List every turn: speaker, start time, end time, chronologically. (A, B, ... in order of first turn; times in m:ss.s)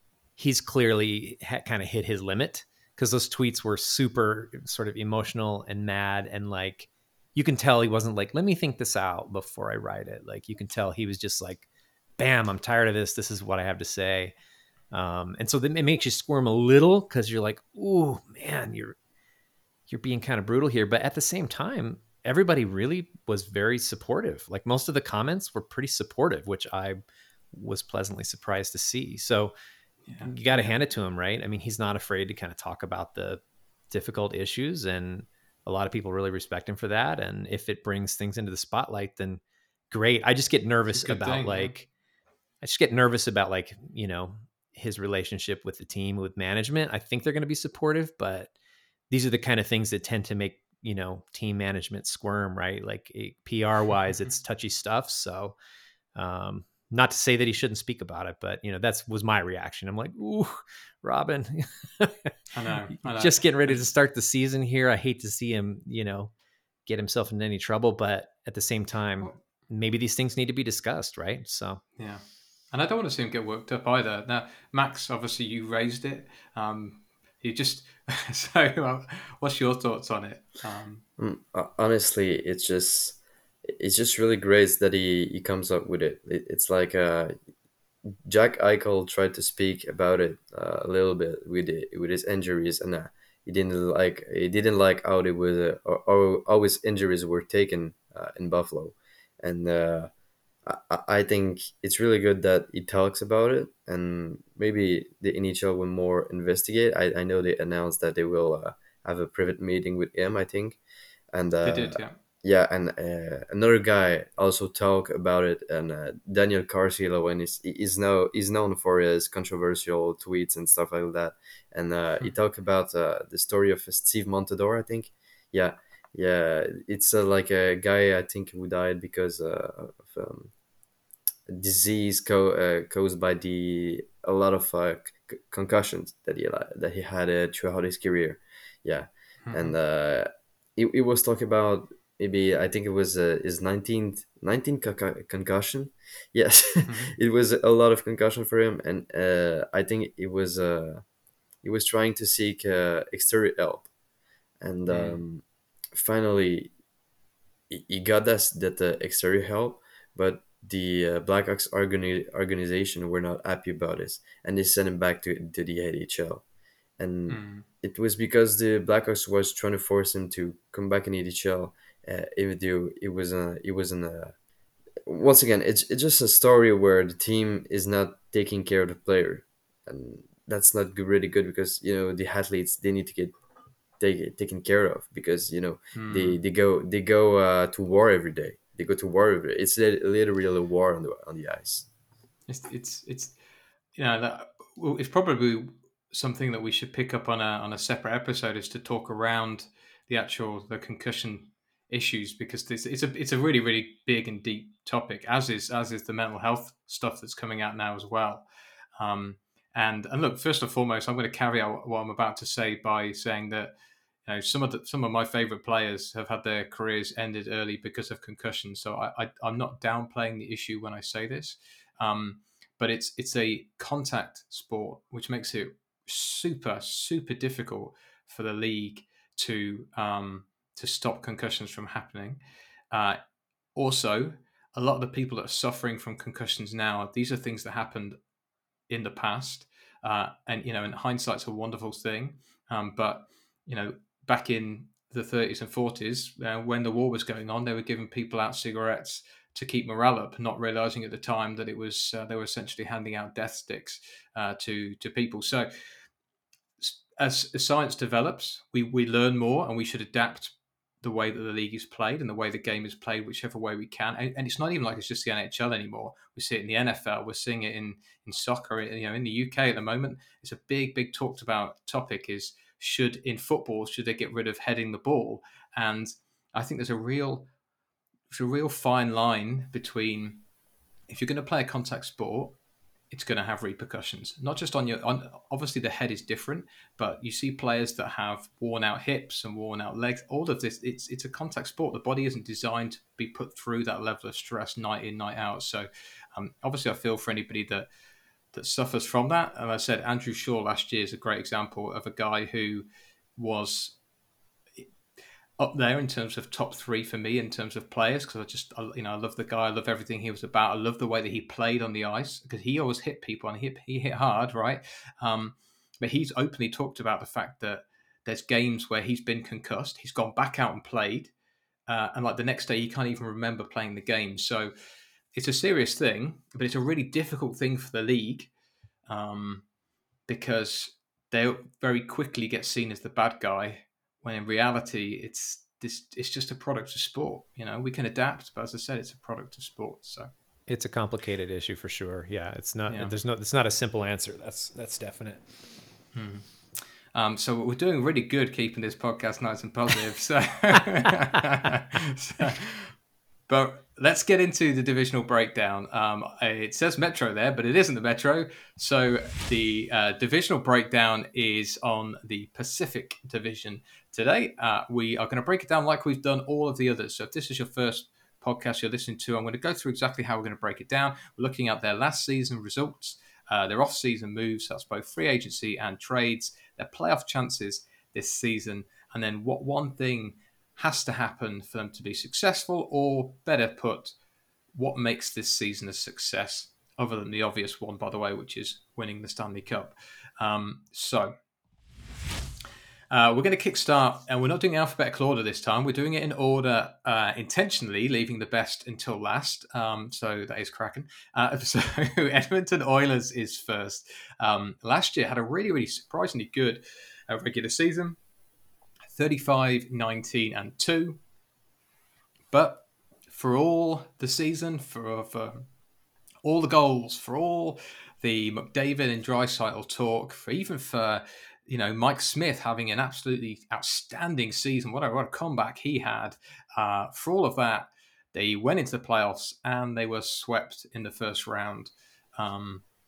0:00.4-0:11.7 A
0:12.2-0:14.3 A
0:14.9-0:19.0 A
0:19.9-0:27.0 A
0:27.5-0:29.5 A
0:30.0-0:30.4 B
0:30.2-0:41.9 A
0:40.9-0:41.7 B
0:42.6-0:48.5 A
0:49.1-0:55.6 A
0:56.1-1:02.3 A
1:02.5-1:03.8 B
1:03.0-1:06.3 A
1:06.8-1:11.8 A
1:12.0-1:21.0 B
1:21.2-1:27.3 C
1:28.2-1:40.1 C
1:40.6-1:50.8 C
1:51.3-2:10.5 C
1:51.6-1:52.2 B
2:11.5-2:31.0 C
2:19.4-2:19.7 B
2:26.8-2:27.1 B
2:31.6-2:33.9 C
2:34.6-2:36.7 C
2:34.9-2:35.2 B
2:37.7-2:46.4 C
2:47.0-2:54.3 C
2:47.3-2:47.6 B
2:55.1-3:03.3 C
3:04.0-3:11.9 C
3:05.9-3:06.4 B
3:12.5-3:13.4 B
3:13.9-3:28.4 B
3:29.0-3:33.7 B
3:34.2-3:53.2 B
3:53.7-3:58.2 B
3:58.9-4:15.7 B
4:16.8-4:37.5 B
4:38.3-4:40.4 B
4:41.1-4:42.6 B
4:43.1-4:57.9 B
4:58.5-5:02.8 B
5:03.4-5:04.0 B
5:05.6-5:21.3 B
5:21.9-5:24.7 B
5:25.3-5:28.5 B
5:29.1-5:29.6 B
5:30.3-5:40.3 B
5:40.7-5:45.5 A
5:42.9-5:43.1 B
5:46.1-5:52.9 B
5:53.5-6:24.2 B
6:24.7-6:31.3 B
6:33.1-6:48.2 B
6:49.1-6:51.2 B
6:52.5-6:55.6 B
6:56.4-7:12.8 B